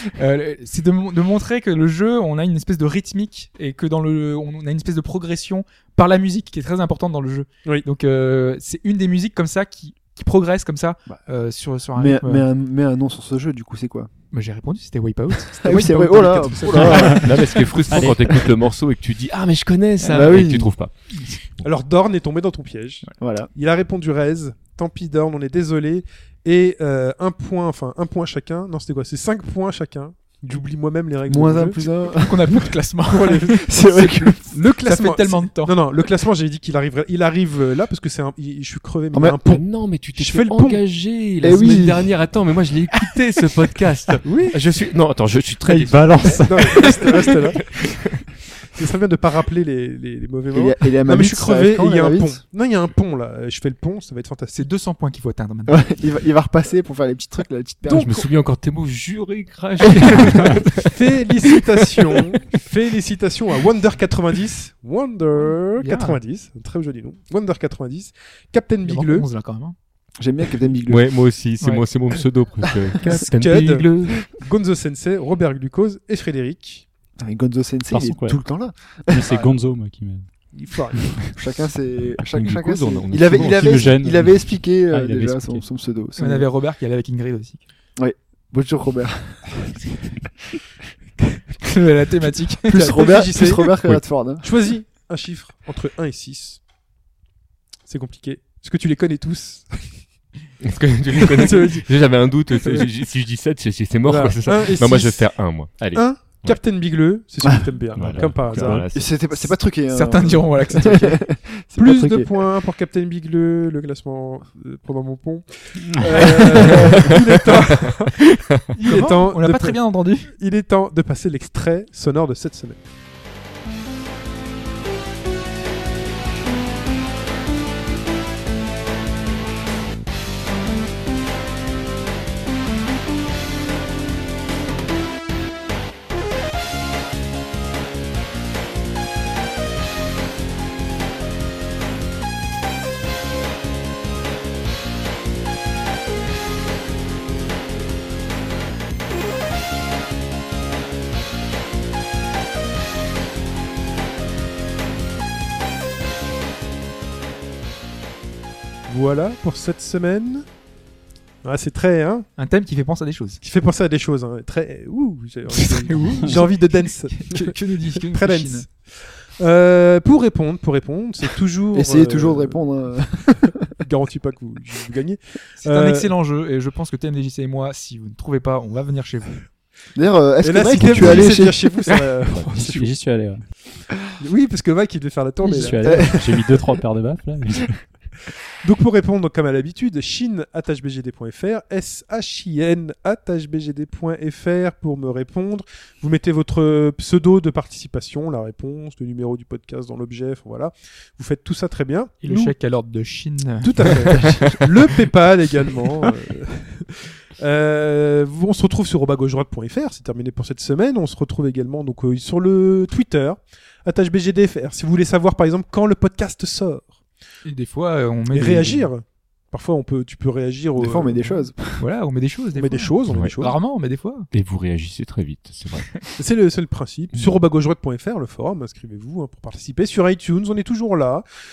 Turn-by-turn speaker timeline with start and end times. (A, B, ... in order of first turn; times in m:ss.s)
0:00.2-0:12.4 A
0:12.0-0:14.1 B
0:14.3-0:17.4 A
0:15.6-0:18.4 B
0:17.0-0:20.9 C
0:20.0-0:20.7 B
0:21.6-0:31.8 D
0:23.2-0:23.5 B
0:31.3-0:32.7 B
0:32.2-0:34.0 A
0:33.1-0:39.6 D
0:33.5-0:34.6 B
0:34.8-0:35.8 A
0:39.1-0:39.4 B
0:39.5-0:48.2 C
0:40.2-0:40.8 D
0:41.4-0:42.1 B
0:44.2-0:44.6 D
0:45.6-0:47.0 E
0:46.4-0:47.6 D
0:48.7-0:54.6 D
0:50.5-0:52.4 B
0:54.5-0:55.9 A
0:55.7-0:58.3 B
0:57.8-1:02.1 C
1:00.8-1:09.3 D
1:05.8-1:06.2 A
1:08.8-1:09.8 A
1:10.2-1:11.1 B
1:10.9-1:14.3 C
1:13.1-1:16.8 D
1:17.2-1:19.2 B
1:17.9-1:18.4 E
1:19.1-1:20.3 E
1:20.5-1:21.2 D
1:21.0-1:21.3 E
1:21.3-1:26.5 B
1:22.3-1:23.9 C
1:23.3-1:25.6 E
1:26.2-1:27.6 A
1:28.0-1:29.9 B
1:31.6-1:33.0 A
1:32.7-1:33.8 D
1:32.7-1:34.4 B
1:34.4-1:36.6 D
1:37.9-1:40.0 D
1:40.6-1:46.6 C
1:41.1-1:41.8 D
1:42.5-1:42.9 D
1:44.1-1:45.3 D
1:45.9-1:48.8 D
1:48.0-1:49.2 C
1:48.0-1:48.8 E
1:48.9-1:52.4 B
1:49.9-1:51.2 A
1:51.8-1:58.1 D
1:58.7-1:59.8 D
1:58.8-2:00.3 A
2:00.3-2:02.8 D
2:38.9-2:40.4 D
2:41.4-2:42.3 D
2:42.4-2:43.4 A
2:43.4-2:48.7 D
2:45.5-2:48.6 A
2:49.4-2:52.6 D
2:51.7-2:53.7 B
2:53.8-2:56.1 D
2:55.6-2:59.4 A
2:59.9-3:01.7 B
3:00.4-3:02.9 D
3:00.8-3:01.4 C
3:01.9-3:02.2 A
3:02.4-3:03.4 E
3:04.2-3:06.2 D
3:05.4-3:07.8 E
3:05.4-3:06.7 B
3:08.6-3:22.5 D
3:22.2-3:24.3 A
3:23.6-3:37.0 D
3:37.4-3:38.9 A
3:38.3-3:41.4 D
3:40.8-3:41.8 B
3:41.8-3:44.3 A
3:42.6-3:43.5 D
3:44.3-3:45.9 C
3:46.2-3:51.2 D
3:47.1-3:47.4 C